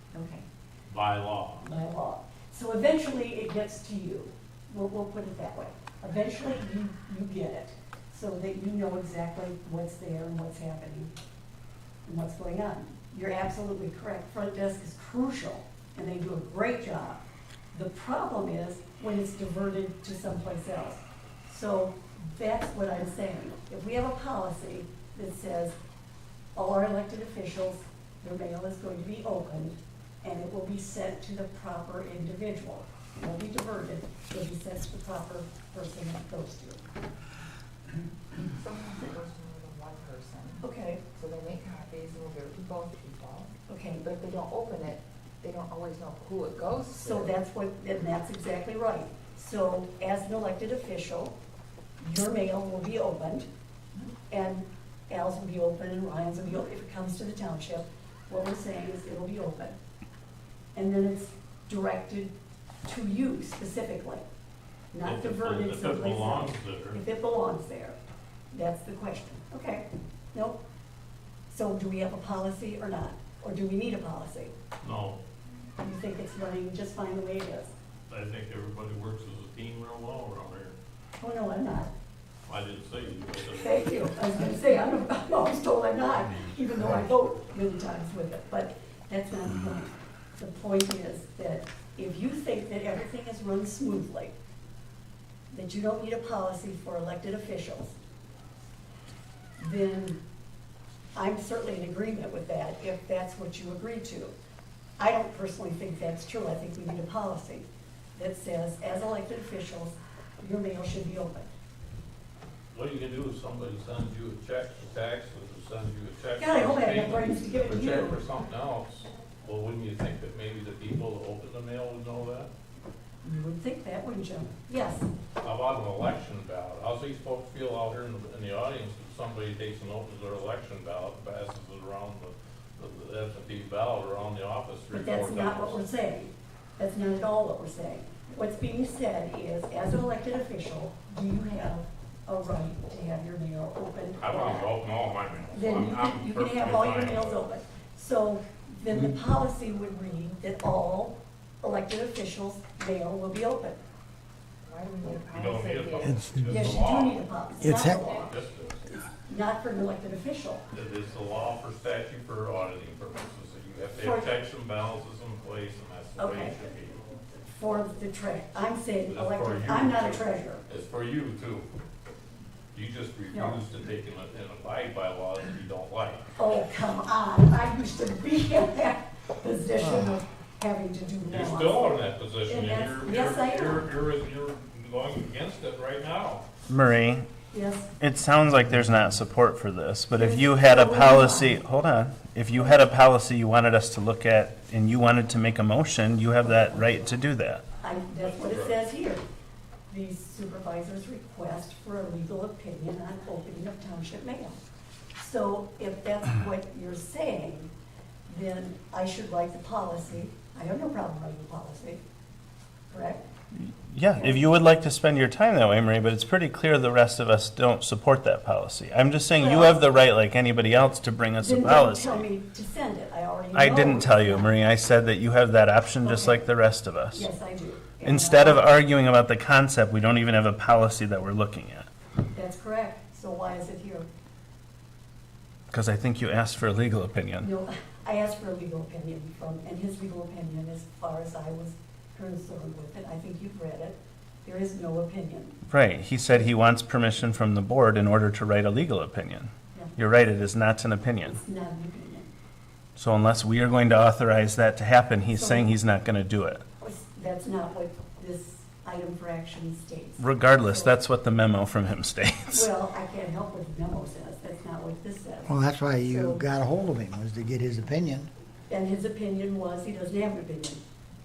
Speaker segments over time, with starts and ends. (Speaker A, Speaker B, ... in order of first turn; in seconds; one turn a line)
Speaker A: 0.1-0.4
Speaker B: 0.9-1.7
Speaker A: 1.6-11.1
Speaker A: 12.1-25.8
Speaker A: 26.5-36.8
Speaker C: 38.5-43.5
Speaker A: 40.6-41.0
Speaker A: 43.7-44.1
Speaker C: 44.0-47.3
Speaker A: 47.0-51.4
Speaker A: 52.0-53.5
Speaker A: 54.3-59.8
Speaker A: 60.7-62.3
Speaker A: 62.8-64.2
Speaker A: 64.9-68.0
Speaker B: 65.0-67.0
Speaker A: 68.5-70.6
Speaker A: 71.5-74.5
Speaker B: 74.8-75.2
Speaker A: 75.8-77.7
Speaker B: 78.1-80.7
Speaker A: 81.2-81.9
Speaker B: 82.5-84.1
Speaker A: 83.6-94.3
Speaker A: 95.5-98.0
Speaker A: 99.6-100.2
Speaker A: 101.1-104.3
Speaker A: 105.0-111.5
Speaker B: 112.7-122.5
Speaker A: 116.4-118.2
Speaker A: 123.2-125.1
Speaker B: 125.4-135.8
Speaker A: 134.9-144.7
Speaker B: 144.2-147.4
Speaker A: 145.5-153.8
Speaker C: 154.7-156.2
Speaker B: 155.3-157.3
Speaker D: 156.0-156.6
Speaker A: 156.5-158.3
Speaker D: 157.6-158.0
Speaker B: 158.0-159.0
Speaker A: 159.2-160.6
Speaker B: 160.7-167.0
Speaker A: 164.0-164.3
Speaker A: 166.2-166.6
Speaker A: 167.4-170.6
Speaker B: 169.1-171.7
Speaker B: 172.7-176.2
Speaker A: 173.3-173.6
Speaker A: 176.3-183.9
Speaker B: 181.3-186.4
Speaker E: 186.7-187.3
Speaker A: 187.5-187.9
Speaker E: 188.0-197.6
Speaker A: 190.1-191.6
Speaker A: 197.8-199.2
Speaker B: 198.1-198.7
Speaker A: 199.9-204.6
Speaker A: 205.2-207.7
Speaker A: 208.3-212.0
Speaker A: 212.9-213.2
Speaker E: 213.5-222.3
Speaker A: 219.3-219.8
Speaker A: 221.4-224.5
Speaker E: 223.5-227.3
Speaker A: 226.0-226.5
Speaker A: 227.1-228.7
Speaker E: 228.0-231.9
Speaker A: 232.3-234.1
Speaker E: 235.7-237.5
Speaker A: 237.4-245.6
Speaker E: 245.7-251.4
Speaker A: 251.2-252.3
Speaker E: 253.0-256.6
Speaker A: 255.3-255.7
Speaker A: 256.8-260.9
Speaker E: 260.2-262.7
Speaker A: 262.5-266.4
Speaker D: 265.4-268.3
Speaker A: 268.7-270.8